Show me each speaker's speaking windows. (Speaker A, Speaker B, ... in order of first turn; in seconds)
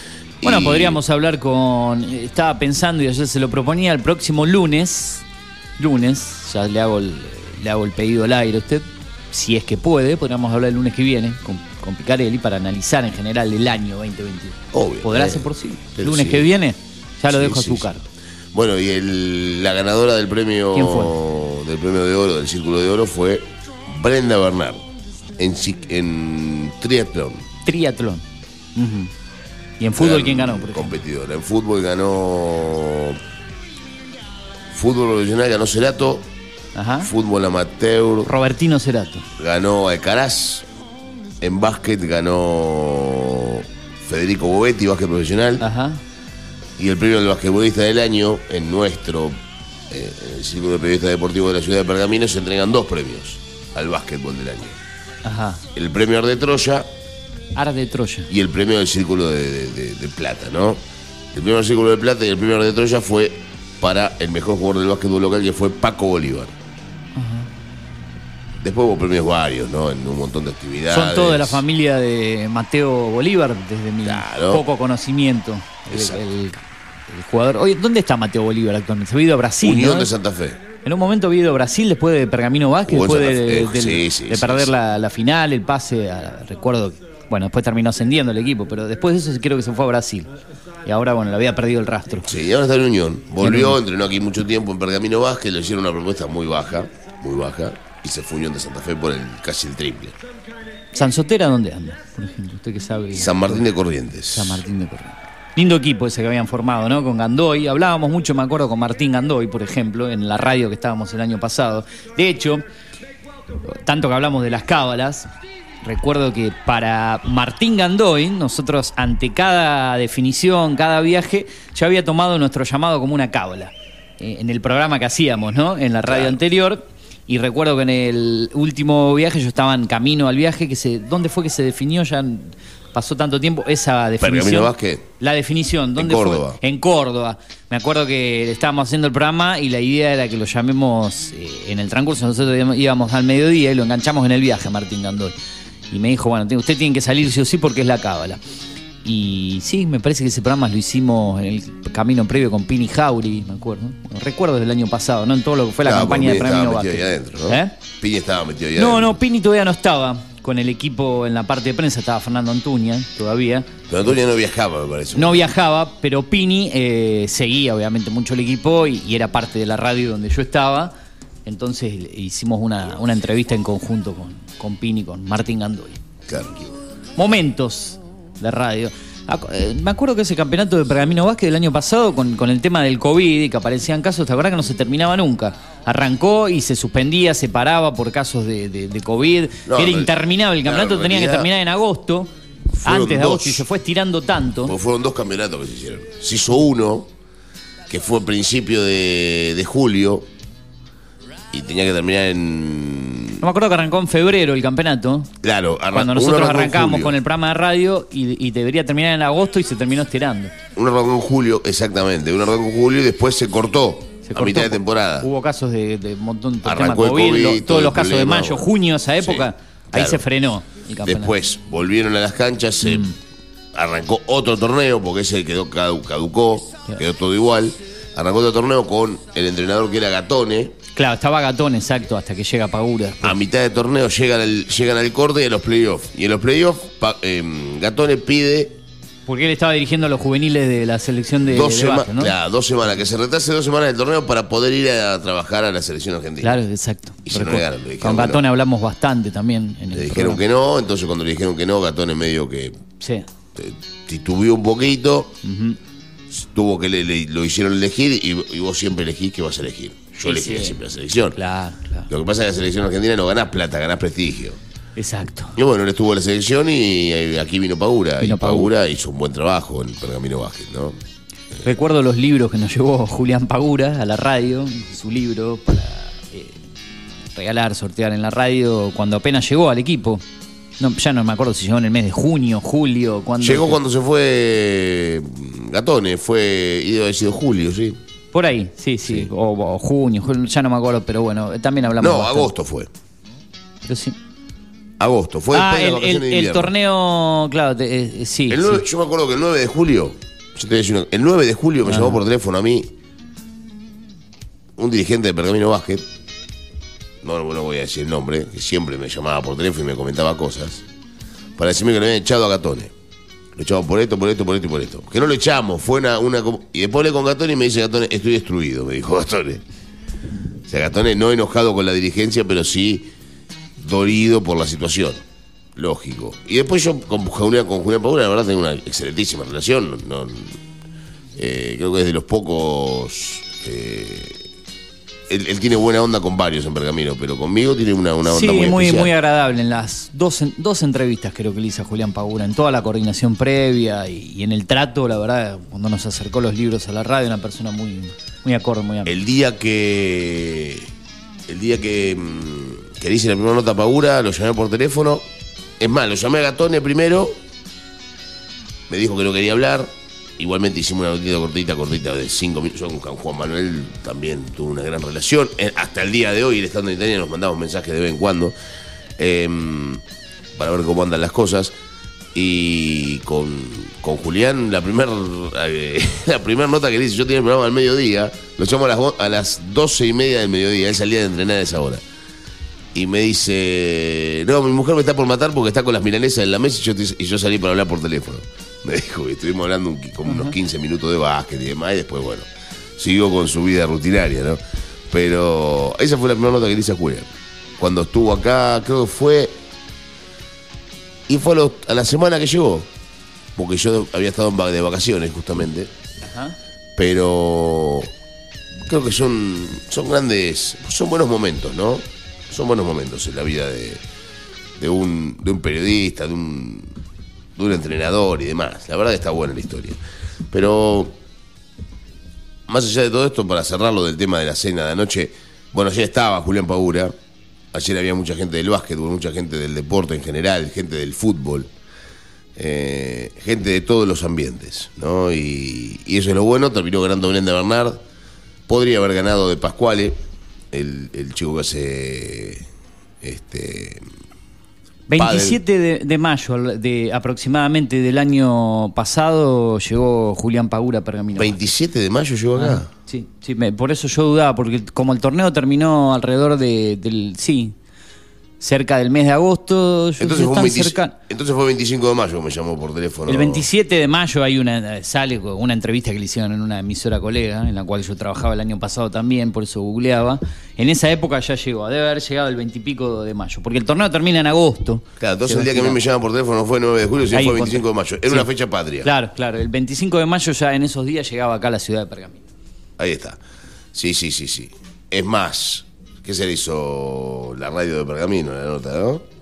Speaker A: 0.4-1.0, 14.7-16.5, 17.3-17.9, 18.5-24.8, 25.4-27.4, 30.0-33.2, 34.7-36.2, 37.0-38.3, 39.4-40.6, 41.4-45.6, 46.8-49.4, 49.9-54.8, 55.7-56.9, 58.3-60.8, 61.3-66.5, 68.6-71.6, 74.0-74.7, 75.9-76.2, 79.6-80.6, 82.8-84.7, 92.2-100.2, 103.1-104.6, 126.1-126.4, 134.2-135.1, 136.0-136.6, 155.8-159.2, 163.9-165.5, 176.3-176.7, 189.7-191.5, 192.7-193.7, 194.6-197.1, 197.9-200.3, 201.5-203.4, 205.4-207.1, 210.7-215.3, 216.6-218.7, 219.2-220.2, 221.0-223.1, 223.7-230.8, 233.2-238.8, 241.5-246.6, 247.2-248.4, 249.9-252.8, 253.5-255.3, 256.3-261.4, 262.1-264.6, 265.6-271.0, 283.4-288.0, 289.0-289.3, 292.0-292.9, 295.0-296.7, 298.5-302.9, 304.8-306.0, 307.2-310.8, 311.6-312.9, 313.6-319.6, 320.7-323.1, 323.8-325.2, 325.8-330.6, 331.4-334.4, 335.3-339.1, 349.1-350.9, 351.5-355.2, 355.8-357.4, 358.9-368.6, 369.2-370.0, 370.6-371.8, 372.3-382.0, 382.9-399.5, 401.3-402.9, 403.6-405.9, 407.0-408.1, 408.8-414.0, 414.8-416.9, 417.6-420.0, 420.5-421.1, 422.7-427.1, 427.7-431.7, 432.6-438.0, 438.7-440.2, 440.7-442.6, 443.2-444.0, 445.1-445.6, 451.3-452.9, 460.2-463.7, 475.2-479.1, 483.0-483.4, 483.9-489.2
Speaker B: 0.4-5.2, 5.8-18.0, 20.7-21.1, 27.6-28.2, 28.8-29.1, 29.8-30.9, 36.7-37.1, 38.2-39.2, 45.6-46.0, 55.2-55.6, 57.5-58.3, 67.2-67.5, 70.9-80.1, 80.8-90.3, 90.8-92.3, 93.4-93.8, 100.9-103.7, 104.3-112.6, 113.6-115.3, 115.8-145.3, 145.9-148.4, 149.0-157.8, 158.8-163.7, 165.1-170.9, 171.4-176.0, 177.2-192.3, 192.8-194.7, 203.4-205.3, 205.9-210.5, 214.2-221.3, 222.8-223.2, 230.9-233.4, 239.2-242.3, 246.4-250.4, 253.0-253.2, 255.4-255.8, 260.2-260.8, 261.3-262.1, 264.9-265.5, 268.2-268.7, 271.6-276.6, 277.3-280.2, 280.8-283.8, 288.3-292.5, 293.8-294.2, 295.5-298.9, 301.9-302.2, 338.3-349.1, 390.3-390.5, 406.3-406.6, 445.1-451.6, 452.6-457.7, 458.6-461.1, 463.3-476.0, 477.3-478.5, 479.0-482.4